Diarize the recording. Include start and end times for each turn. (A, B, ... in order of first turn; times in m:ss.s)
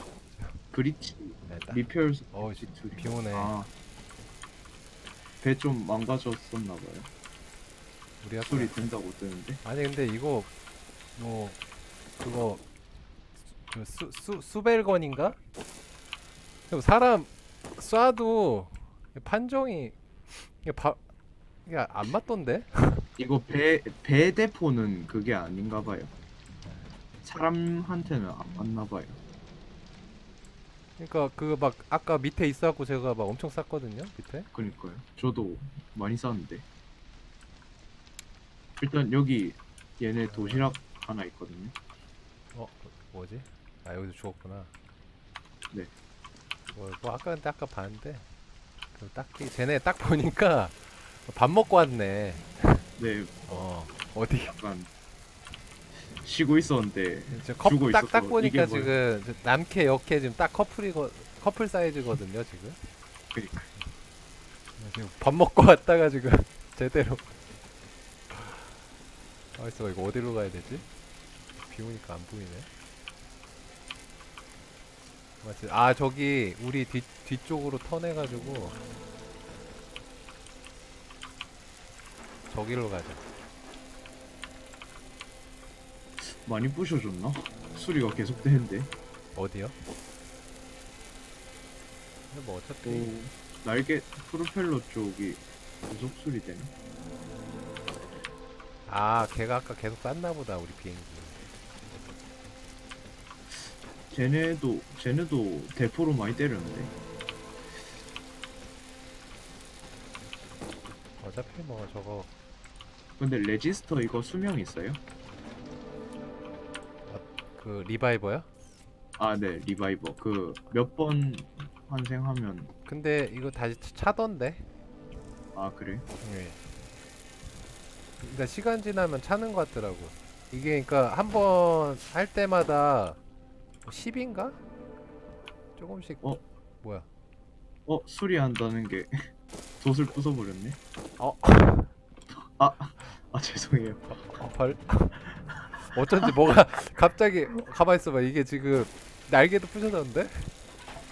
0:00.7-0:03.7 A
0:01.5-0:01.8 B
0:02.3-0:03.5 B
0:05.4-0:07.1 A
0:08.2-0:08.7 B
0:08.4-0:09.6 A
0:09.6-0:10.5 B
0:11.2-0:11.6 B
0:12.2-0:12.6 B
0:13.5-0:15.4 B
0:16.7-0:21.0 B
0:21.6-0:23.1 B
0:23.2-0:26.1 A
0:27.2-0:29.2 A
0:31.0-0:34.5 B
0:34.5-0:36.6 A
0:38.8-0:41.7 A
0:40.3-0:40.7 B
0:42.5-0:44.7 B
0:46.7-0:48.2 B
0:48.9-0:52.8 B
0:53.0-0:53.4 A
0:53.5-0:54.6 B
0:54.5-0:54.9 A
0:56.2-0:58.9 A
0:57.3-1:02.8 B
1:03.3-1:03.7 A
1:04.8-1:07.3 B
1:08.3-1:08.6 B
1:09.5-1:10.8 B
1:11.6-1:12.7 B
1:15.4-1:18.8 B
1:22.5-1:23.2 B
1:26.2-1:28.9 A
1:29.4-1:29.8 B
1:32.3-1:33.2 B
1:32.8-1:36.7 A
1:38.8-1:41.5 B
1:43.6-1:46.9 A
1:51.2-1:52.3 B
1:53.2-1:55.0 A
1:57.1-1:58.5 B
1:59.2-2:02.7 A
2:02.8-2:04.7 B
2:05.5-2:06.0 A
2:06.2-2:06.6 B
2:08.2-2:13.2 B
2:13.8-2:14.6 B
2:15.8-2:16.3 B
2:17.9-2:19.2 A
2:19.8-2:20.8 A
2:21.2-2:21.9 B
2:22.4-2:24.0 A
2:24.1-2:30.5 B